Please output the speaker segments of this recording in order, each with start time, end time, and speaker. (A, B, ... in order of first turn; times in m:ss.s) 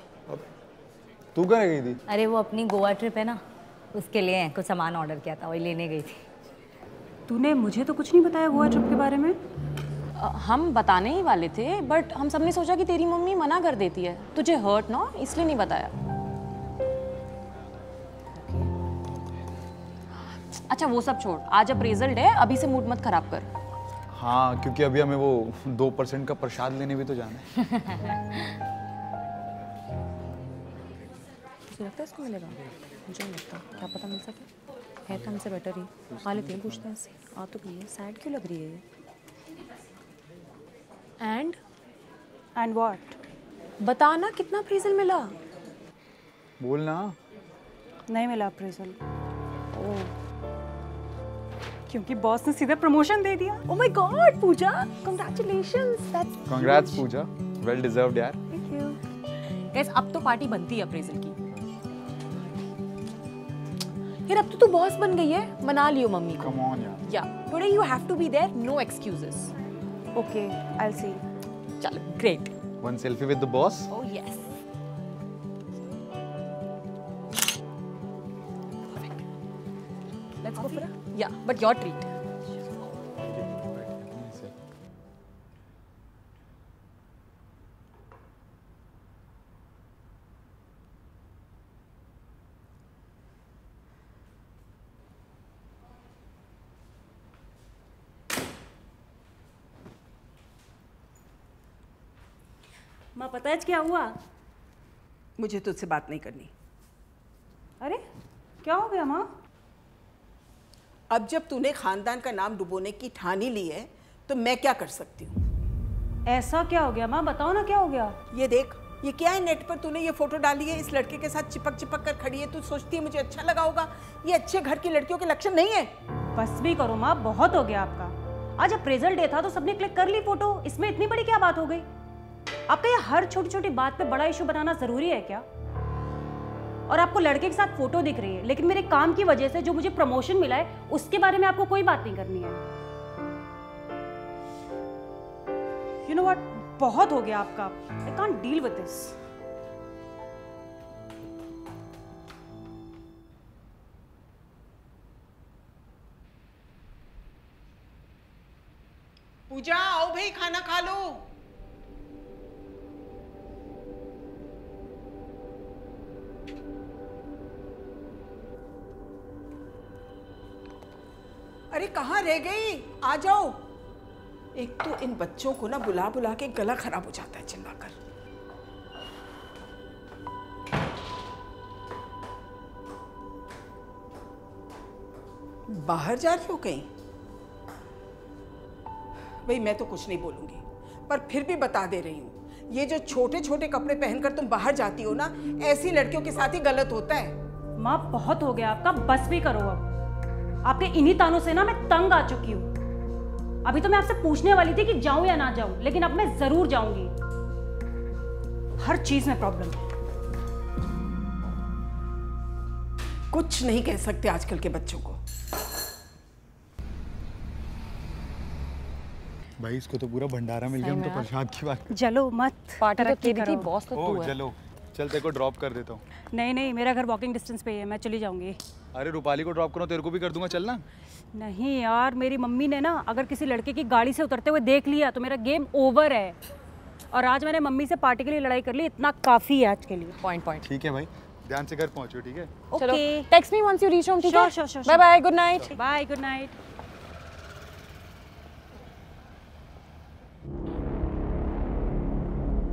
0:01.4-0:02.0 A
0:02.1-0:03.4 B
0:03.9-0:06.2 B
0:07.3-0:09.4 C
0:10.2-0:15.9 D
0:18.4-0:18.7 D
0:20.5-0:23.5 D
0:24.1-0:27.7 A
0:31.7-0:34.5 D
0:35.1-0:38.8 D
0:36.2-0:36.8 A
0:41.2-0:41.6 D
0:42.6-0:43.2 C
0:43.8-0:45.4 D
0:46.6-0:47.2 A
0:48.1-0:49.0 C
0:49.7-0:50.1 D
0:51.9-0:53.6 C
0:53.7-0:57.0 D
0:56.5-0:58.4 A
0:58.5-0:59.0 D
0:59.6-1:01.4 D
1:04.3-1:09.5 D
1:06.4-1:07.0 A
1:10.2-1:11.2 C
1:11.8-1:12.5 D
1:12.8-1:13.9 A
1:13.9-1:14.5 D
1:18.9-1:19.1 D
1:20.5-1:22.1 D
1:20.5-1:20.9 E
1:23.2-1:24.5 A
1:43.2-1:44.2 C
1:45.4-1:46.5 E
1:48.6-1:49.3 C
1:51.1-1:55.4 E
1:56.3-1:58.2 C
1:58.3-2:05.9 E
2:06.3-2:11.9 C
2:12.7-2:15.4 C
2:16.9-2:22.6 C
2:26.0-2:29.2 C
2:39.5-2:41.2 E
2:51.7-2:53.6 E
2:54.6-2:58.0 E
3:05.7-3:06.9 E
3:09.4-3:17.4 E
3:17.8-3:19.9 C
3:20.6-3:22.7 C
3:23.6-3:27.1 C
3:28.8-3:29.8 C
3:33.3-3:35.2 E
3:39.6-3:41.8 A
3:40.7-3:41.3 D
3:41.9-3:43.7 C
3:42.8-3:44.4 D
3:43.9-3:46.0 A
3:46.3-3:48.6 C
3:48.9-3:50.8 A
3:51.3-3:56.4 C
3:57.1-4:00.2 C
4:00.2-4:00.7 D
4:00.6-4:02.5 A
4:02.7-4:05.8 D
4:02.7-4:03.3 C
4:04.2-4:05.0 C
4:05.7-4:06.6 C